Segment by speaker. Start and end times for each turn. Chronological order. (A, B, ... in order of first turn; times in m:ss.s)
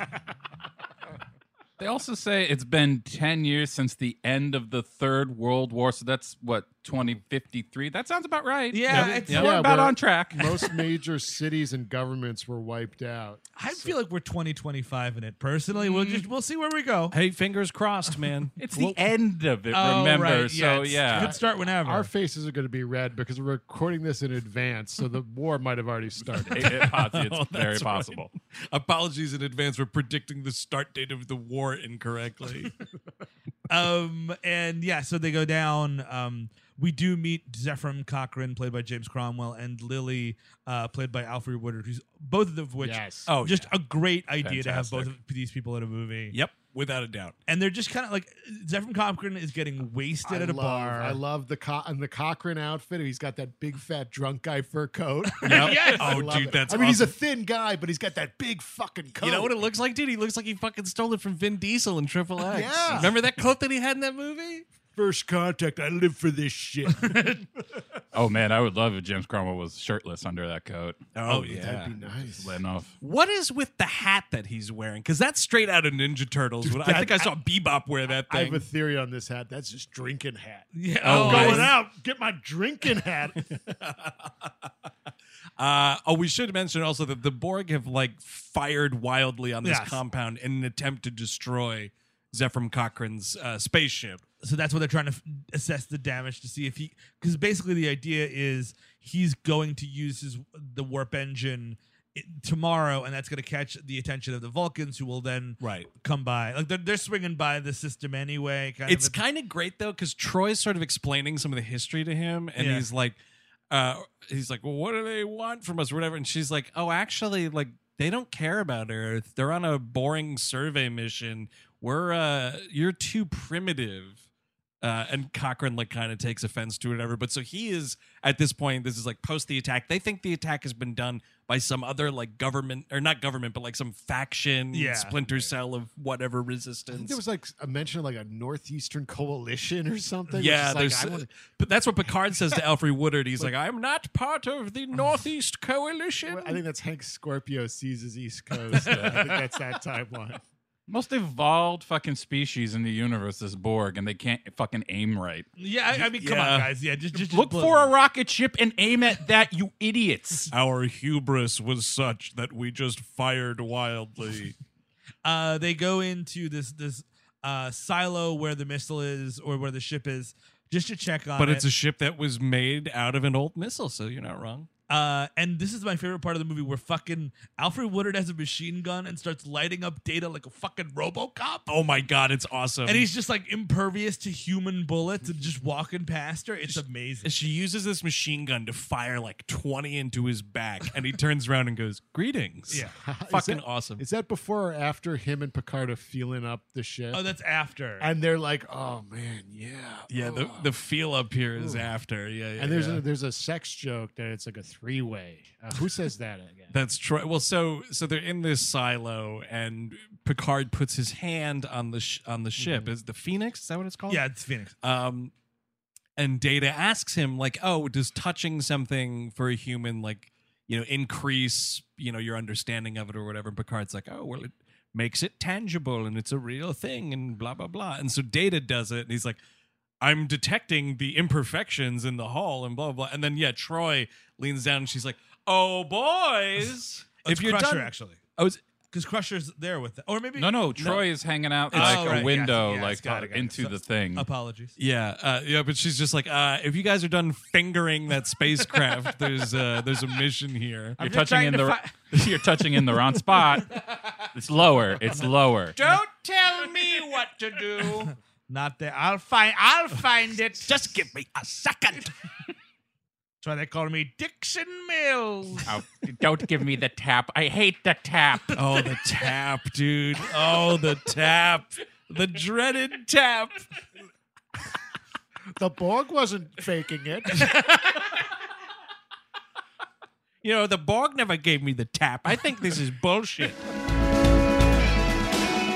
0:01.8-0:10.8 A
0:08.7-0:09.5 B
0:08.9-0:09.5 C
0:08.9-0:13.9 D
0:13.6-0:17.1 B
0:15.8-0:16.2 A
0:17.1-0:19.0 C
0:18.6-0:21.3 A
0:19.7-0:22.1 B
0:21.1-0:27.0 D
0:26.4-0:28.3 A
0:26.6-0:32.7 C
0:33.7-0:46.4 B
0:42.8-0:43.3 D
0:43.3-0:43.7 C
0:44.4-0:45.1 A
0:46.3-0:47.3 C
0:47.4-0:51.2 B
0:50.2-0:59.7 D
0:55.4-0:56.4 B
0:55.4-0:57.1 C
0:59.2-1:04.6 C
1:02.4-1:03.2 D
1:04.9-1:07.6 D
1:08.1-1:11.0 A
1:11.1-1:12.0 C
1:11.2-1:12.6 D
1:12.4-1:12.9 A
1:13.0-1:18.6 C
1:16.6-1:17.3 B
1:18.3-1:23.6 D
1:20.7-1:21.8 B
1:21.0-1:21.7 A
1:25.6-1:34.2 C
1:29.6-1:30.0 B
1:34.4-1:49.2 B
1:45.6-1:45.9 C
1:48.9-1:53.2 C
1:52.6-1:52.9 B
1:53.7-2:04.2 C
2:04.8-2:17.2 C
2:14.7-2:15.2 B
2:16.9-2:21.3 D
2:20.3-2:26.6 C
2:26.2-2:30.4 D
2:28.7-2:29.4 B
2:28.8-2:29.2 A
2:30.9-2:35.5 A
2:35.6-2:37.9 B
2:35.9-2:36.7 C
2:37.1-2:40.5 A
2:40.5-2:44.6 C
2:45.2-2:51.6 B
2:51.4-2:54.7 C
2:54.9-3:01.7 B
3:01.7-3:03.1 C
3:02.8-3:07.3 B
3:06.7-3:14.0 C
3:12.7-3:13.0 B
3:12.7-3:17.3 D
3:17.1-3:18.1 B
3:18.0-3:20.7 D
3:20.1-3:23.0 C
3:21.6-3:21.9 D
3:22.6-3:26.8 D
3:26.7-3:34.3 C
3:32.6-3:32.9 D
3:34.1-3:34.7 B
3:34.8-3:35.3 C
3:36.2-3:49.4 C
3:50.0-3:58.6 C
3:57.2-3:58.2 B
3:58.9-4:00.5 B
4:00.4-4:04.3 A
4:00.8-4:01.0 C
4:01.7-4:04.7 B
4:01.7-4:02.2 C
4:04.8-4:11.0 C
4:11.0-4:11.9 B
4:11.0-4:15.8 A
4:15.7-4:18.1 C
4:17.8-4:20.8 B
4:20.6-4:22.1 C
4:23.4-4:25.8 B
4:25.6-4:28.6 A
4:28.5-4:33.7 C
4:35.6-4:37.5 D
4:37.3-4:38.0 C
4:40.4-4:43.6 C